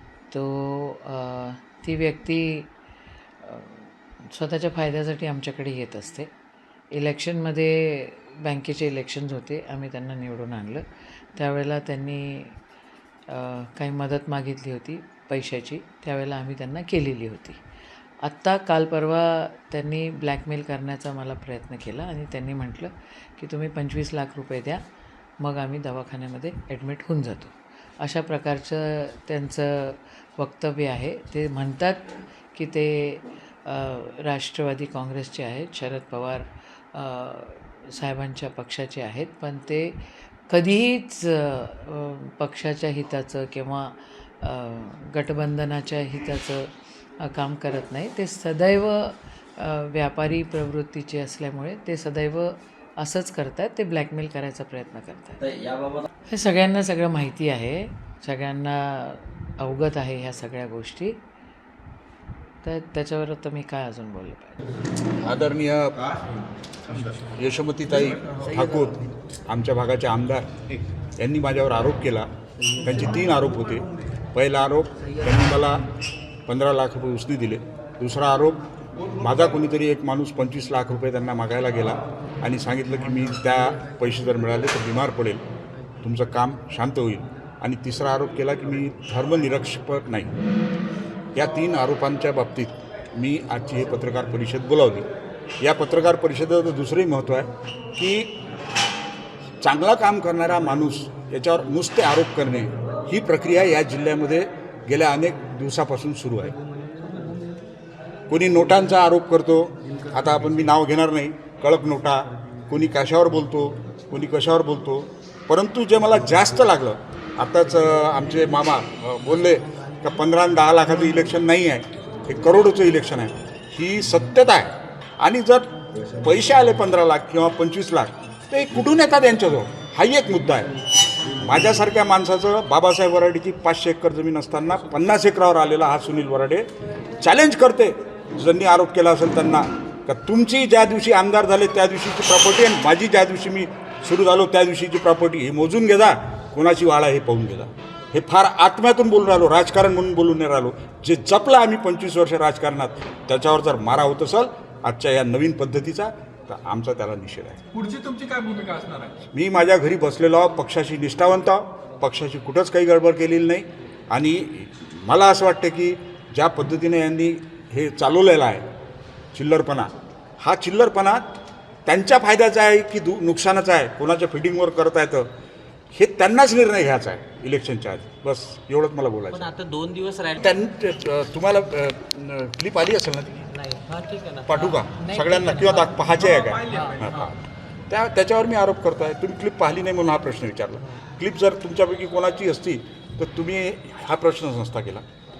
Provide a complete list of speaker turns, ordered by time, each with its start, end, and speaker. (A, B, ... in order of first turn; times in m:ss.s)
0:00.3-0:02.7 A
0:03.4-0:06.3 A
0:06.9-0:12.6 A
0:13.3-0:17.6 A
0:18.2-0:24.8 A
0:25.4-0:55.7 A
0:56.3-1:01.2 A
1:02.6-1:04.6 A
1:05.2-1:06.1 B
1:06.9-1:10.5 B
1:11.2-1:12.3 B
1:12.8-1:15.9 B
1:16.5-1:18.6 B
1:19.2-1:25.4 B
1:26.0-1:30.3 B
1:31.3-1:35.0 B
1:35.6-1:38.3 B
1:39.6-1:46.6 B
1:48.3-2:10.7 B
2:11.4-2:16.6 B
2:17.2-2:37.6 B
2:37.7-2:39.1 C
2:39.3-2:48.6 B
2:49.3-2:51.2 B
2:51.8-2:55.3 B
2:55.9-2:59.5 B
2:59.3-3:00.4 D
3:00.4-3:03.4 B
3:03.5-3:06.1 D
3:04.5-3:07.4 B
3:06.1-3:07.3 C
3:06.7-3:07.1 D
3:07.9-3:15.0 B